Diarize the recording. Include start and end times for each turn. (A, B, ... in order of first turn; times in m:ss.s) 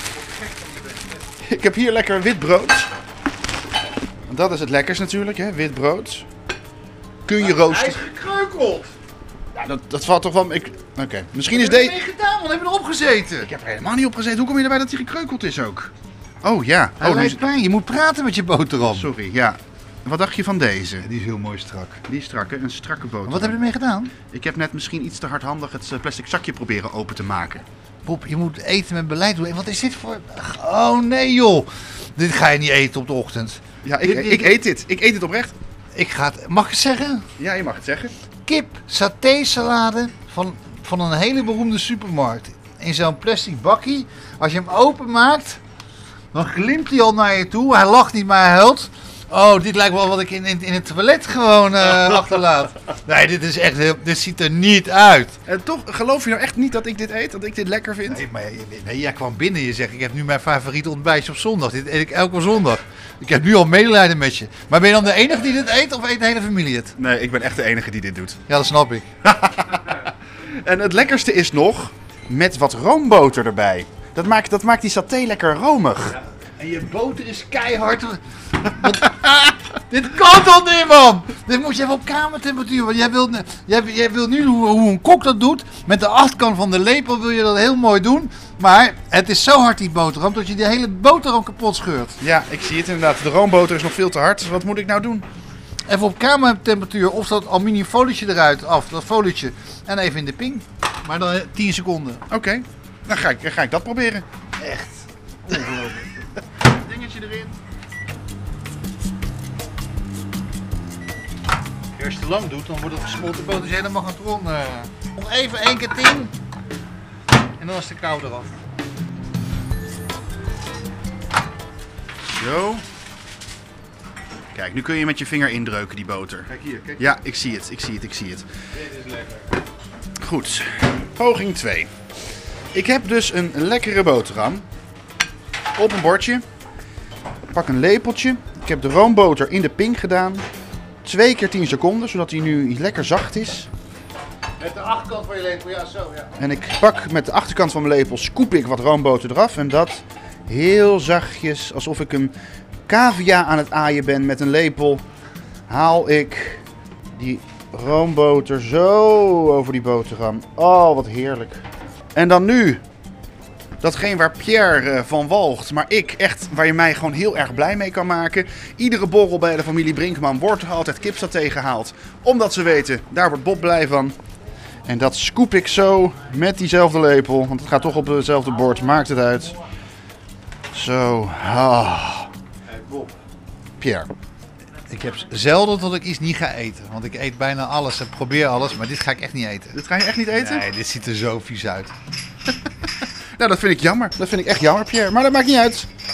0:00.2-0:01.0 A
0:01.4-0:02.9 B
0:04.3-0:06.2 B
0:07.2-0:08.0 B
0:07.4-0:08.9 A
0:09.6-0:12.0 B
0:11.5-0:13.5 A
0:13.4-0:15.9 B
0:16.4-0:17.4 B
0:17.0-0:19.1 A
0:18.8-0:21.1 B
0:21.0-0:22.0 A
0:22.0-0:23.6 B
0:23.2-0:24.1 A
0:24.3-0:27.6 B
0:28.0-0:34.5 A
0:33.8-0:35.5 B
0:36.0-0:37.2 A
0:37.4-0:38.1 B
0:38.4-0:45.6 A
0:46.3-0:55.3 A
0:55.4-0:58.2 B
0:58.0-1:06.9 A
1:07.0-1:08.4 B
1:08.5-1:09.0 A
1:09.2-1:16.2 B
1:16.6-1:32.2 A
1:32.2-1:35.2 B
1:35.9-1:42.2 A
1:42.3-1:44.2 B
1:44.6-1:46.1 A
1:46.7-1:47.6 B
1:52.0-1:56.3 A
1:57.6-1:58.5 A
2:02.3-2:02.8 B
2:04.5-2:08.5 B
2:06.5-2:07.1 A
2:08.8-2:09.5 A
2:10.2-2:11.9 B
2:12.7-2:14.6 B
2:15.8-2:16.4 B
2:17.5-2:20.5 B
2:21.0-2:23.7 B
2:24.6-2:26.3 A
2:26.4-2:32.3 B
2:32.9-2:35.0 B
2:35.7-2:36.6 B
2:37.1-2:41.6 B
2:42.2-2:42.8 B
2:43.8-2:54.2 B
2:54.8-2:59.6 B
3:00.7-3:02.3 B
3:02.7-3:03.2 A
3:03.8-3:04.1 B
3:04.9-3:09.8 A
3:09.7-3:10.7 B
3:10.3-3:11.9 A
3:13.4-3:15.9 B